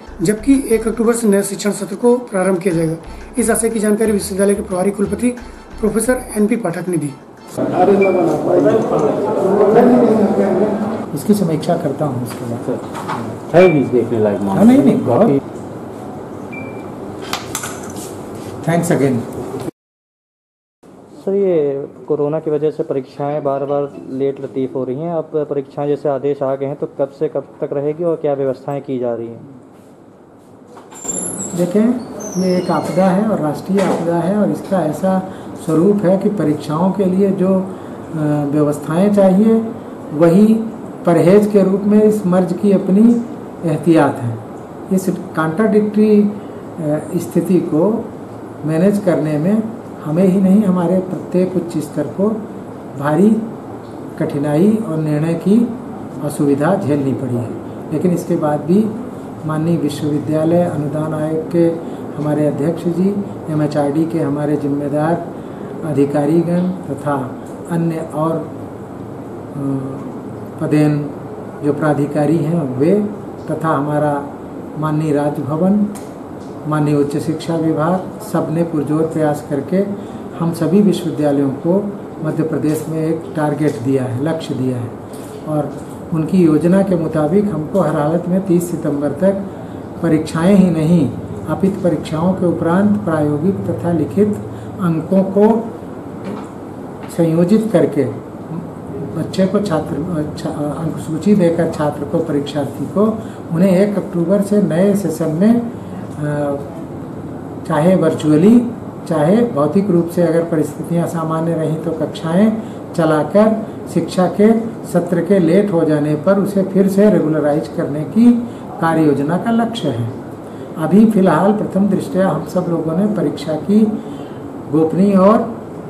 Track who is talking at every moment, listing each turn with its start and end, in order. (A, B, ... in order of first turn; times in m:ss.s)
0:00.2-0:07.2 A
0:07.9-0:09.3 B
0:09.4-0:10.7 A
0:11.1-0:12.7 C
0:13.4-0:15.4 B
0:14.5-0:15.4 C
0:18.6-0:19.3 C
0:21.2-0:29.5 D
0:31.5-0:48.1 C
0:48.6-0:52.4 C
0:53.0-0:53.5 C
0:54.2-1:05.3 C
1:05.8-1:08.5 C
1:09.5-1:15.9 C
1:16.6-1:25.0 C
1:25.5-1:29.5 C
1:30.0-1:35.7 C
1:37.1-1:46.6 C
1:47.6-2:00.2 C
2:00.8-2:04.0 C
2:04.7-2:05.5 C